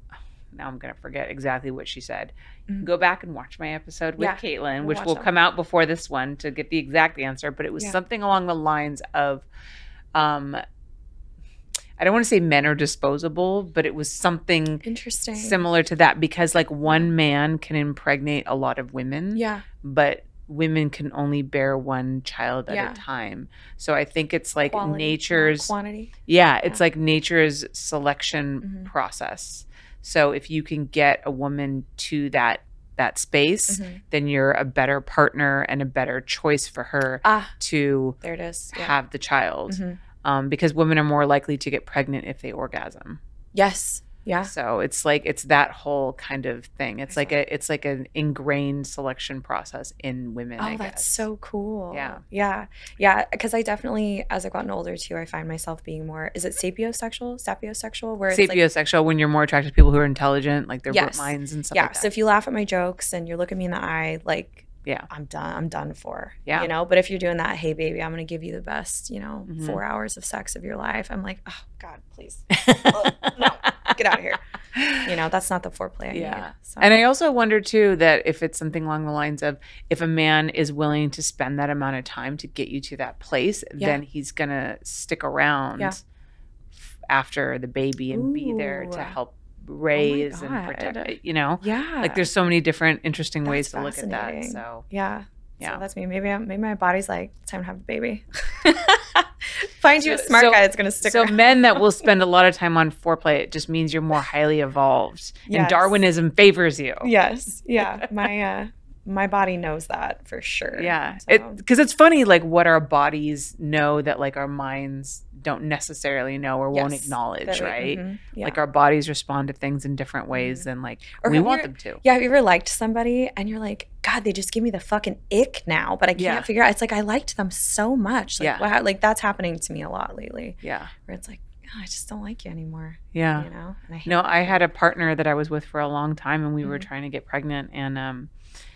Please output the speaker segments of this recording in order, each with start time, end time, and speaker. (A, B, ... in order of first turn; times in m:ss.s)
0:00.5-0:09.5 A
0:04.2-0:05.3 B
0:10.1-0:10.6 A
0:12.0-0:14.8 A
0:14.8-0:15.6 B
0:15.4-0:25.7 A
0:19.3-0:19.6 B
0:22.7-0:23.0 B
0:24.7-0:26.1 B
0:26.3-0:38.2 A
0:28.6-0:28.9 B
0:33.7-0:34.0 B
0:37.2-0:37.5 B
0:38.2-0:39.0 B
0:38.7-0:43.2 A
0:39.7-0:40.0 B
0:43.5-0:44.5 B
0:44.4-0:51.2 A
0:47.1-0:47.4 B
0:50.6-0:58.6 B
0:51.9-0:52.2 A
0:58.3-1:02.1 A
1:00.9-1:14.4 B
1:09.5-1:09.8 A
1:12.5-1:13.9 A
1:14.7-1:15.1 A
1:15.0-1:16.9 B
1:16.1-1:26.0 A
1:26.7-1:34.8 A
1:28.1-1:29.2 B
1:29.9-1:32.3 B
1:33.4-1:42.0 B
1:40.0-1:47.1 A
1:45.5-1:46.0 B
1:47.0-1:51.6 B
1:47.8-1:48.1 A
1:50.8-2:02.0 A
1:56.7-1:58.6 B
2:00.3-2:00.6 B
2:01.2-2:14.6 B
2:06.2-2:06.5 A
2:10.6-2:10.9 A
2:13.1-2:13.5 A
2:14.0-2:18.3 A